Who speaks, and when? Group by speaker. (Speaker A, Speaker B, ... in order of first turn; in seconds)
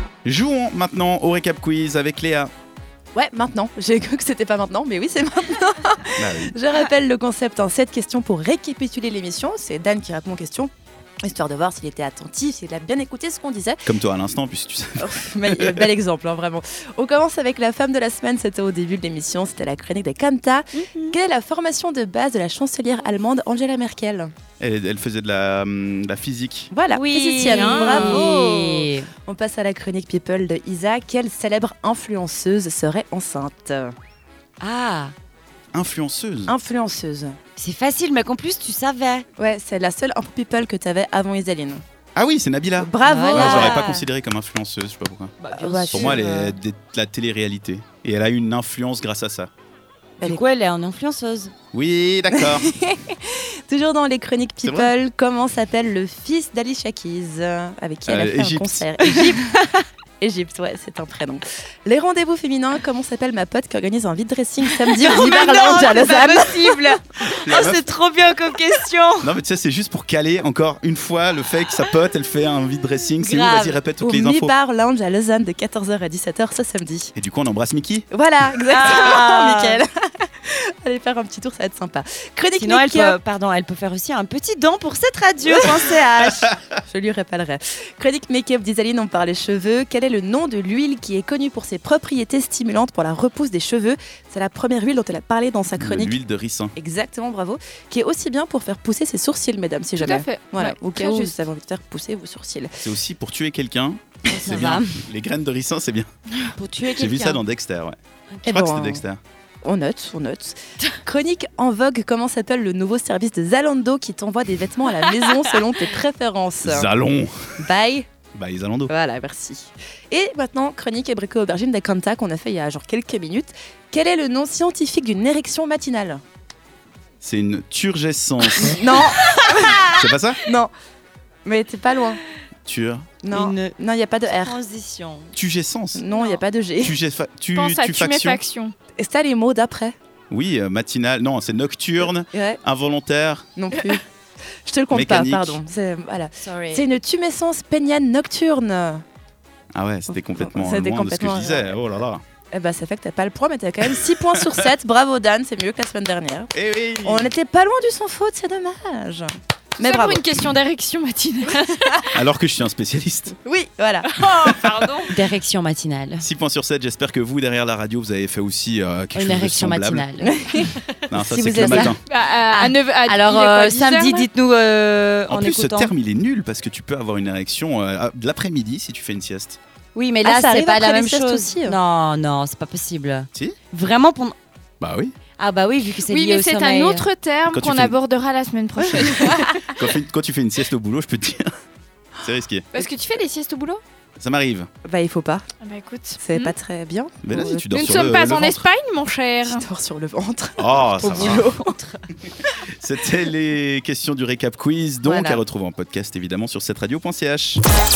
Speaker A: 0.2-2.5, 6.2-6.5, 13.8-15.9, 24.6-26.7, 35.7-36.5, 42.1-45.3, 45.9-49.5, 51.7-52.7, 54.6-54.9, 58.1-59.0, 67.4-67.8, 69.2-74.5, 77.2-78.0, 95.8-96.7, 102.8-106.1, 106.9-109.2, 116.6-117.7, 118.3-118.9, 127.2-128.8, 129.9-130.4, 132.7-133.2, 135.3-136.0, 136.8-138.4, 140.3-143.5, 144.9-145.6, 149.7-152.2, 156.5-157.3, 162.1-163.3, 166.2-170.1, 171.1-172.0, 175.3-179.6, 184.8-185.1, 187.5-187.9, 189.7-191.5, 192.2-192.7, 194.2-194.7, 197.2-198.7, 200.6-201.5, 202.8-207.6
Speaker B: 3.1-10.7, 11.2-13.8, 15.0-24.3, 26.7-33.9, 36.5-37.4, 39.4-41.8, 42.8-43.8, 45.5-46.3, 52.3-59.5, 60.2-66.9, 74.0-77.1, 78.1-83.2, 85.4-96.2, 96.7-102.7, 108.4-109.0, 109.6-116.9, 117.6-118.1, 118.9-126.2, 128.6-129.8, 130.3-130.7, 131.4-132.2, 133.2-134.6, 135.9-136.9, 139.0-139.9, 142.0-142.6, 143.6-144.0, 144.7-149.0, 150.2-151.7, 152.5-160.2, 163.4-165.0, 170.2-171.9, 180.2-181.8, 188.8-189.5, 194.8-195.4, 196.2-197.7, 199.4-201.8, 205.0-205.4
Speaker C: 20.7-21.1, 26.9-29.1, 34.6-35.1, 37.6-39.2, 43.0-44.0, 45.4-46.6, 50.2-51.5, 64.6-69.3, 73.2-73.8, 78.7-79.8, 82.6-86.1, 104.3-105.0, 106.6-107.4, 129.1-129.9, 133.3-133.7, 134.3-135.3, 146.4-146.9, 165.1-166.2, 169.1-170.3, 171.5-171.9, 172.5-175.9, 179.9-184.3, 185.4-187.1
Speaker D: 100.0-101.3, 137.5-138.7, 159.8-162.2, 164.1-165.1, 172.1-174.2, 186.1-189.7, 192.7-193.8, 195.6-196.5, 197.7-199.6